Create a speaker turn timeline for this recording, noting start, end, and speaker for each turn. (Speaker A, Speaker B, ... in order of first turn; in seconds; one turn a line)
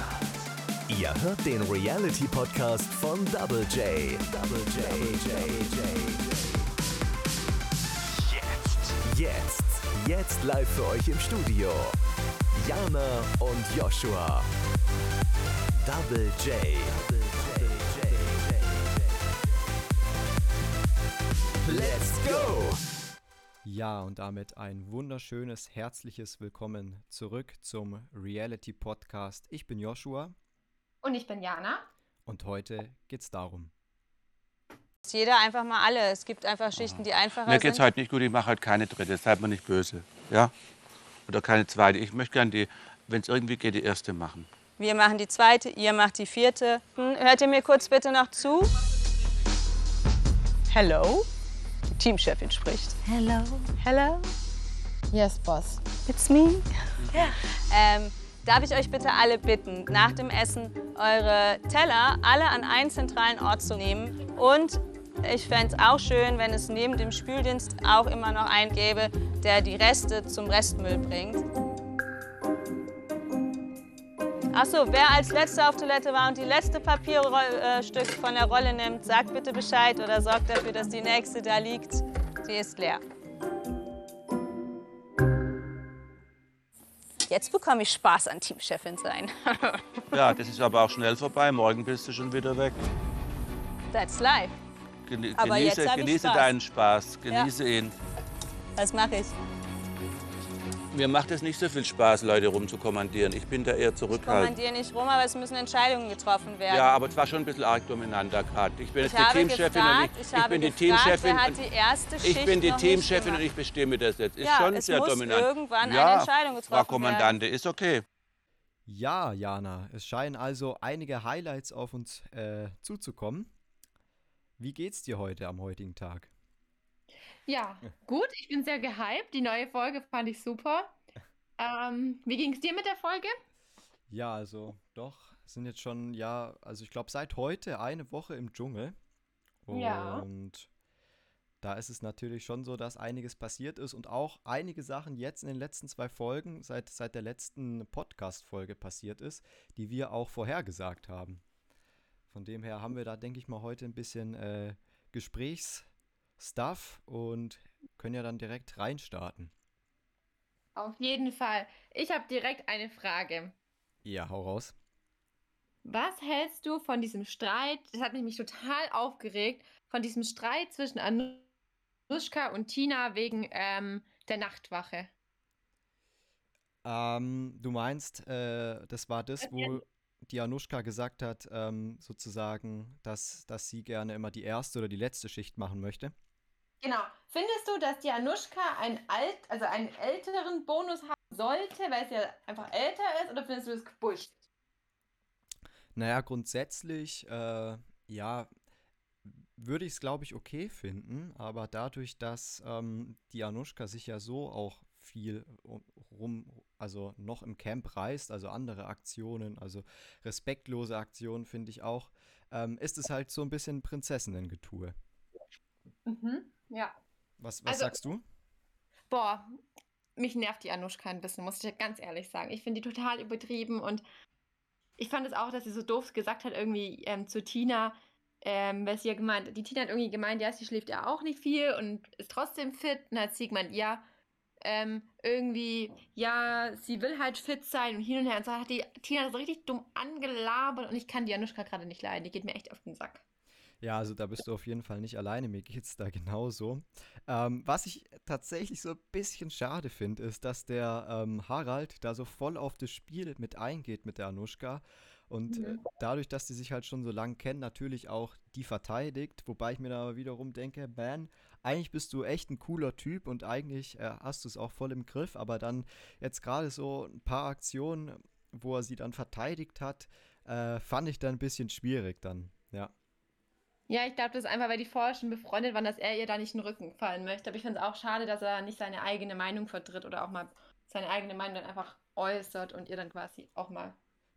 Speaker A: 0.9-6.4
Speaker A: 8.5-12.0
Speaker A: 12.5-14.5
Speaker A: 15.8-18.9
Speaker A: 21.6-22.8
Speaker B: 23.6-30.3
Speaker C: 31.0-31.9
Speaker B: 32.2-33.7
Speaker D: 35.0-37.9
Speaker E: 37.4-40.5
Speaker E: 41.3-44.5
Speaker D: 44.8-48.7
Speaker D: 50.7-51.3
Speaker D: 51.9-54.3
Speaker C: 55.1-55.8
Speaker D: 56.0-71.4
Speaker D: 74.5-83.0
Speaker D: 87.3-90.3
Speaker E: 90.1-92.8
Speaker D: 93.9-94.5
Speaker E: 95.0-97.9
Speaker D: 95.3-96.6
Speaker D: 98.8-99.3
Speaker E: 100.9-104.5
Speaker D: 104.1-106.9
Speaker E: 106.7-111.6
Speaker D: 109.0-113.4
Speaker E: 112.2-118.0
Speaker D: 114.4-117.4
Speaker B: 118.9-123.5
Speaker B: 124.6-126.3
Speaker C: 127.5-130.9
Speaker C: 131.6-133.3
Speaker B: 134.1-138.9
Speaker B: 139.6-140.7
Speaker C: 139.7-140.2
Speaker B: 141.6-151.4
Speaker B: 152.3-159.5
Speaker C: 160.8-163.5
Speaker B: 164.0-164.7
Speaker C: 165.8-171.5
Speaker C: 172.1-175.1
Speaker B: 176.8-186.1
Speaker C: 179.4-179.8
Speaker C: 186.8-194.4
Speaker B: 195.9-198.5
Speaker B: 199.2-214.9
Speaker C: 216.1-216.9
Speaker B: 217.4-218.2
Speaker C: 217.7-218.0
Speaker C: 219.1-219.6
Speaker C: 220.2-224.0
Speaker C: 225.0-234.0
Speaker C: 234.6-243.2
Speaker B: 243.8-272.9
Speaker C: 255.5-255.8
Speaker C: 273.9-284.0